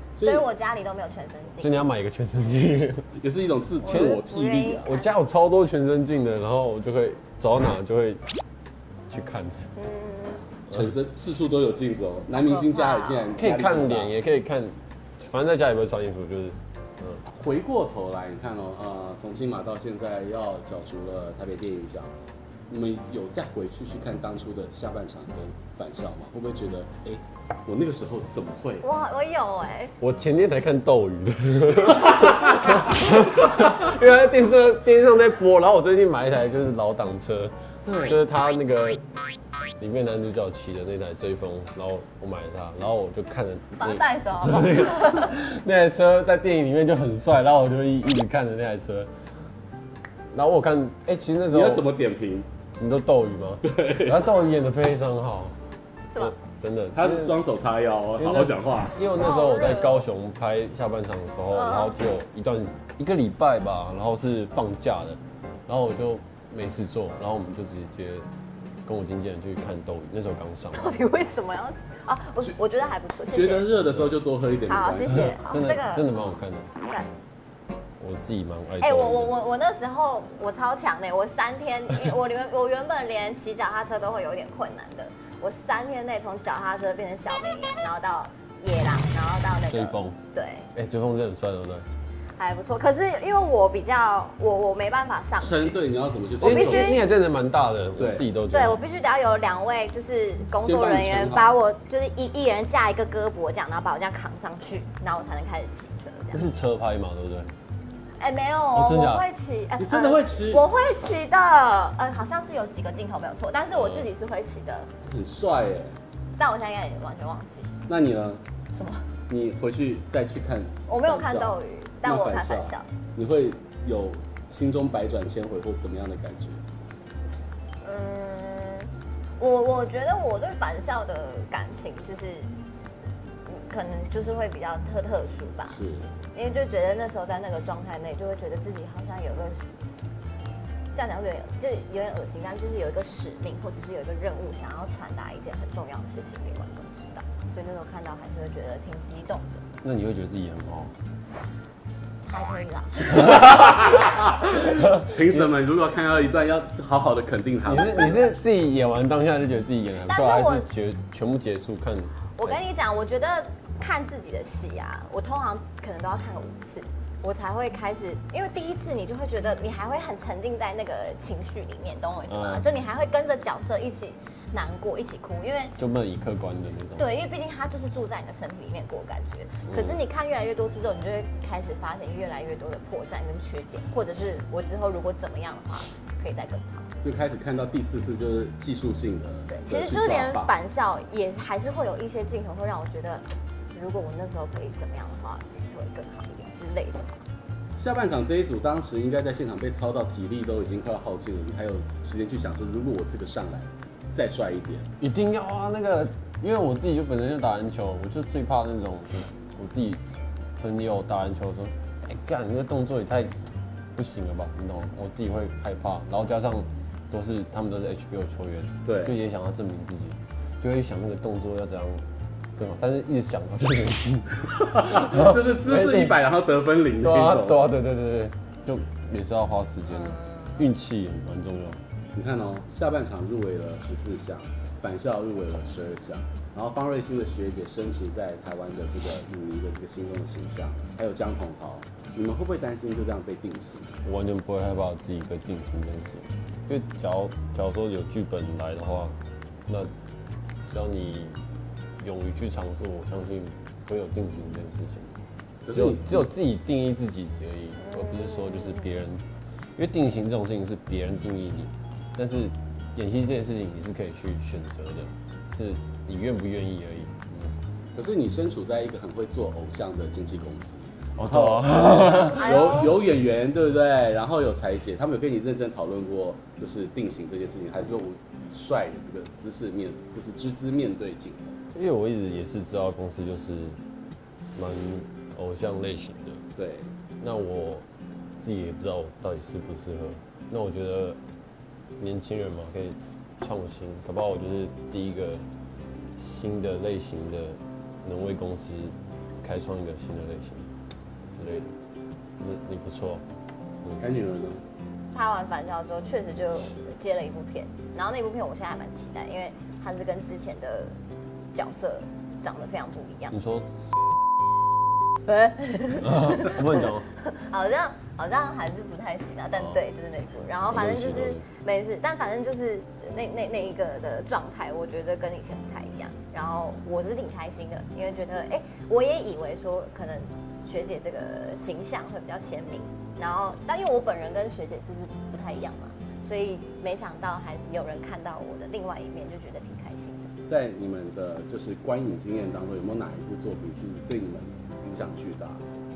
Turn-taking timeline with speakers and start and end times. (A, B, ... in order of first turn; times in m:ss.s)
0:00.2-0:00.4 A
0:00.2-0:01.8 B
0:01.6-0:03.1 C
0:03.2-0:04.9 A
0:03.8-0:05.1 B
0:03.9-0:04.3 C
0:04.8-0:08.2 C
0:09.1-0:09.7 C
0:09.8-0:10.4 B
0:10.7-0:14.1 A
0:12.5-0:13.4 B
0:13.4-0:17.2 C
0:17.3-0:22.1 A
0:22.7-0:28.9 A
0:28.8-0:29.9 B
0:30.0-0:39.0 C
0:37.8-0:38.2 A
0:39.8-0:49.1 C
0:43.8-0:45.4 B
0:50.3-0:51.9 C
0:51.5-0:52.5 A
0:52.8-0:55.6 C
0:53.6-0:54.3 A
0:56.1-0:56.4 B
0:56.2-0:57.4 C
0:56.9-0:59.0 A
0:58.2-1:08.3 C
0:59.2-1:00.0 B
1:01.5-1:02.0 B
1:08.8-1:10.9 C
1:10.7-1:13.7 B
1:13.3-1:15.4 A
1:14.7-1:16.1 B
1:15.2-1:16.7 C
1:16.8-1:17.1 B
1:18.0-1:19.3 C
1:18.8-1:30.7 B
1:29.7-1:30.2 C
1:30.7-1:31.9 C
1:32.4-1:35.8 B
1:35.4-1:37.0 A
1:36.4-1:37.0 B
1:36.4-1:38.8 C
1:38.0-1:38.2 A
1:38.5-1:46.5 B
1:40.6-1:41.5 A
1:46.3-1:47.5 C
1:48.2-1:54.9 B
1:48.7-1:49.2 C
1:49.8-1:50.7 A
1:53.8-1:54.0 C
1:55.1-1:56.0 A
1:56.4-1:57.7 B
1:57.9-1:58.4 A
1:58.7-1:59.1 B
1:59.3-2:06.6 A
2:00.9-2:02.9 B
2:07.8-2:12.5 B
2:13.5-2:15.8 B
2:15.7-2:16.1 A
2:16.4-2:19.6 B
2:20.9-2:29.6 B
2:29.8-2:30.9 C
2:32.2-2:33.9 B
2:33.1-2:38.4 A
2:34.8-2:35.4 C
2:37.6-2:42.6 C
2:40.1-2:40.7 B
2:42.4-2:55.8 B
2:52.3-2:52.6 C
2:55.8-2:57.1 C
2:57.0-3:06.9 B
2:59.7-3:00.0 C
3:07.0-3:10.5 A
3:09.5-3:17.2 B
3:17.8-3:24.9 A
3:25.0-3:30.0 C
3:30.6-3:33.4 C
3:34.0-3:42.0 C
3:38.8-3:39.2 A
3:42.6-3:46.2 C
3:44.6-3:47.7 A
3:47.0-3:51.8 C
3:50.0-3:50.6 B
3:52.2-4:04.0 A
4:04.0-4:09.2 C
4:10.7-4:11.4 C
4:12.0-4:15.2 C
4:15.6-4:16.3 A
4:15.7-4:19.2 C
4:17.8-4:18.8 B
4:19.8-4:27.5 C
4:28.0-4:41.6 A
4:31.2-4:32.6 C
4:32.4-4:32.9 B
4:41.7-4:43.8 C
4:44.6-4:46.4 C
4:46.6-4:46.9 A
4:47.2-4:47.8 C
4:48.4-4:51.2 C
4:52.0-4:55.4 C
4:56.2-5:00.7 C
5:01.3-5:01.7 C
5:02.4-5:03.2 C
5:04.0-5:04.6 A
5:05.1-5:11.0 B
5:11.5-5:13.4 B
5:13.3-5:13.7 C
5:15.2-5:40.3 B
5:16.0-5:17.1 C
5:20.7-5:21.4 C
5:40.5-5:45.6 A